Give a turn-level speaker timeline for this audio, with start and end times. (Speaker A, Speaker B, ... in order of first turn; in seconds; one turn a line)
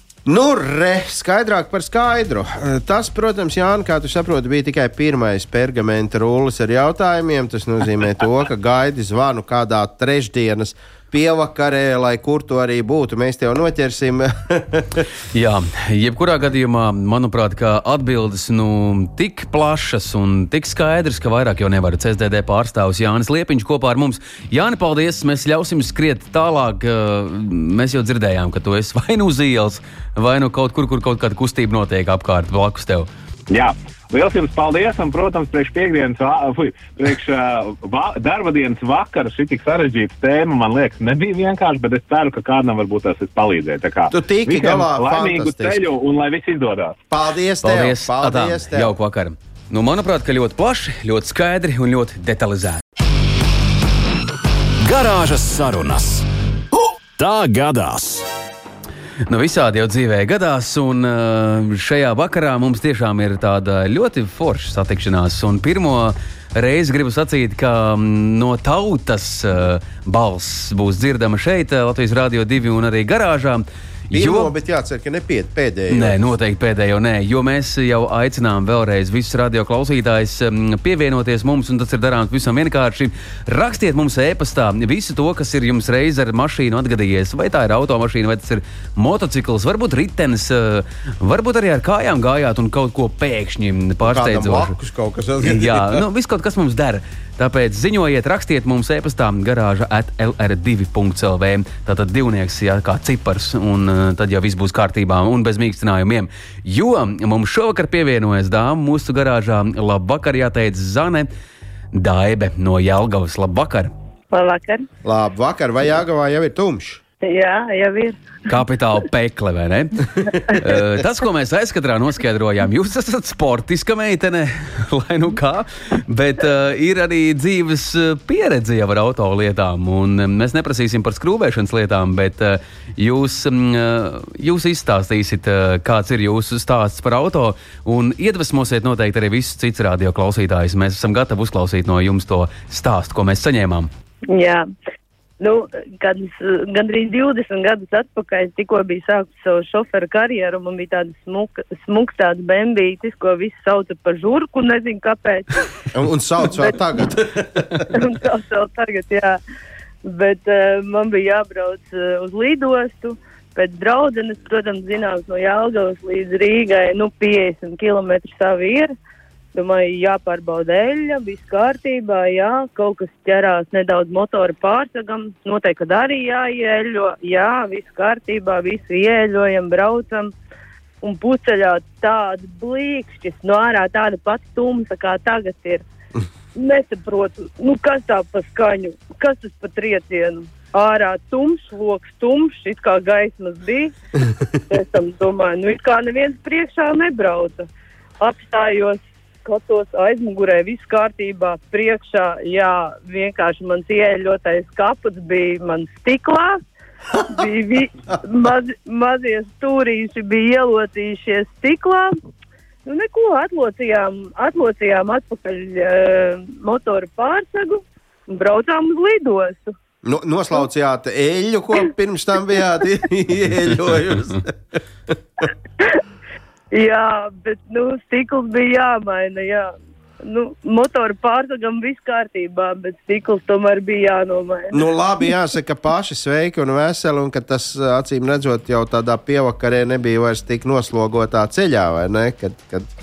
Speaker A: 0.3-15.1
Speaker B: 15.3-33.1
Speaker C: 33.5-47.0
Speaker A: 44.1-45.8
Speaker A: 47.1-48.9
Speaker B: 47.6-52.8
Speaker D: 54.8-56.3
Speaker D: 57.2-58.3
Speaker B: 59.3-74.5
Speaker A: 74.1-76.2
Speaker B: 75.9-94.7
Speaker A: 94.0-96.0
Speaker B: 95.4-111.3
Speaker B: 111.9-113.9
Speaker E: 114.3-114.9
Speaker A: 115.0-117.0
Speaker E: 117.2-118.2
Speaker B: 118.5-143.9
Speaker E: 144.3-144.7
Speaker E: 145.4-155.7
Speaker A: 155.9-158.0
Speaker E: 157.9-159.4
Speaker E: 160.0-168.9
Speaker E: 169.5-180.3
Speaker E: 181.0-185.8
Speaker E: 186.6-193.9
Speaker E: 194.7-197.7
Speaker E: 198.2-206.6
Speaker E: 207.2-212.1
Speaker E: 212.8-219.7
Speaker A: 220.0-224.8
Speaker E: 226.7-234.9
Speaker A: 234.7-242.9